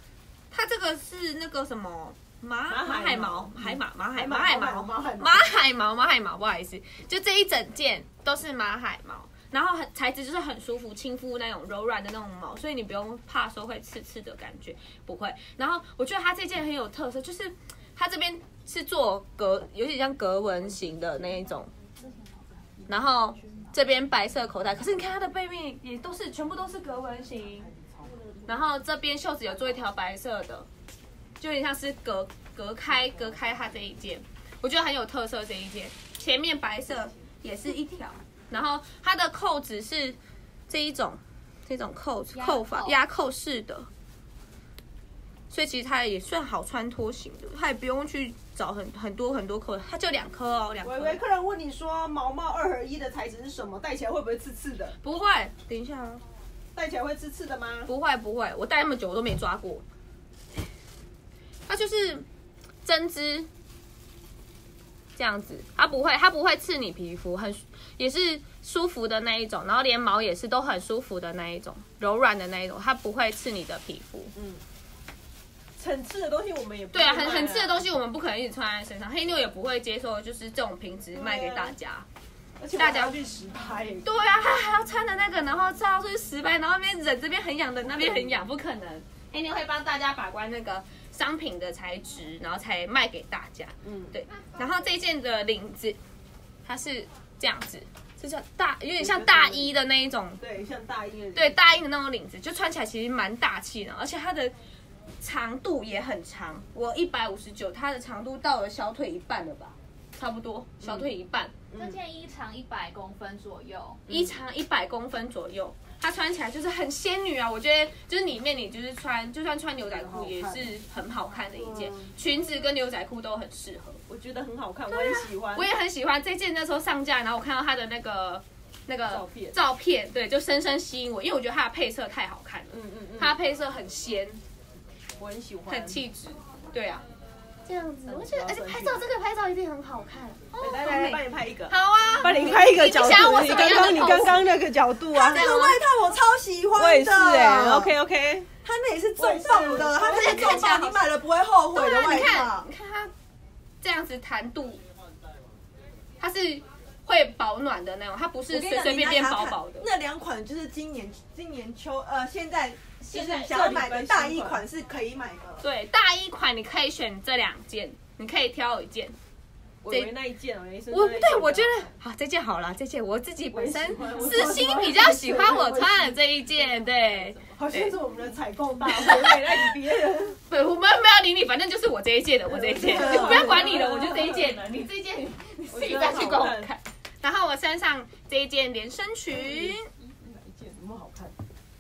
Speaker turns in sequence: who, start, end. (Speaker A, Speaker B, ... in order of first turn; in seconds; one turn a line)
Speaker A: 0.5-21.7
Speaker B: 2.7-5.5
Speaker A: 22.9-27.7
Speaker A: 28.5-30.7
Speaker A: 31.4-40.2
Speaker A: 40.7-43.9
Speaker C: 42.3-43.0
Speaker A: 45.5-51.2
Speaker B: 50.8-55.0
Speaker A: 55.0-56.2
Speaker B: 56.8-57.9
Speaker A: 57.9-59.8
Speaker A: 61.7-62.3
Speaker A: 62.8-63.5
Speaker A: 65.2-74.3
Speaker B: 74.4-74.6
Speaker B: 75.8-77.8
Speaker A: 76.9-82.1
Speaker B: 81.2-81.8
Speaker B: 82.6-84.1
Speaker A: 82.8-83.2
Speaker A: 84.0-96.0
Speaker B: 87.9-88.3
Speaker B: 93.8-94.1
Speaker A: 96.7-100.4
Speaker B: 99.0-99.7
Speaker B: 100.4-101.6
Speaker A: 101.3-104.5
Speaker A: 105.2-111.5
Speaker B: 110.8-111.1
Speaker B: 111.7-112.0
Speaker C: 111.8-114.1
Speaker A: 114.1-124.0
Speaker B: 119.9-120.7
Speaker B: 121.6-122.1
Speaker B: 124.1-125.7
Speaker A: 124.9-134.4
Speaker B: 129.1-129.6
Speaker B: 132.7-133.4
Speaker B: 135.2-136.0
Speaker A: 135.7-137.0
Speaker A: 137.7-144.4
Speaker B: 138.1-139.1
Speaker B: 140.6-145.7
Speaker D: 145.1-147.9
Speaker A: 145.3-145.8
Speaker B: 146.8-148.5
Speaker D: 148.6-152.7
Speaker B: 149.2-150.6
Speaker A: 150.1-151.1
Speaker A: 151.7-153.1
Speaker A: 153.8-154.8
Speaker A: 156.2-159.9
Speaker D: 158.5-165.7
Speaker B: 163.1-164.6
Speaker A: 165.6-169.2
Speaker B: 169.8-171.9
Speaker A: 170.9-178.0
Speaker B: 173.5-180.4
Speaker A: 178.9-179.4
Speaker A: 180.5-189.9
Speaker B: 182.5-184.6
Speaker D: 182.9-183.7
Speaker B: 185.7-186.7
Speaker B: 189.3-191.4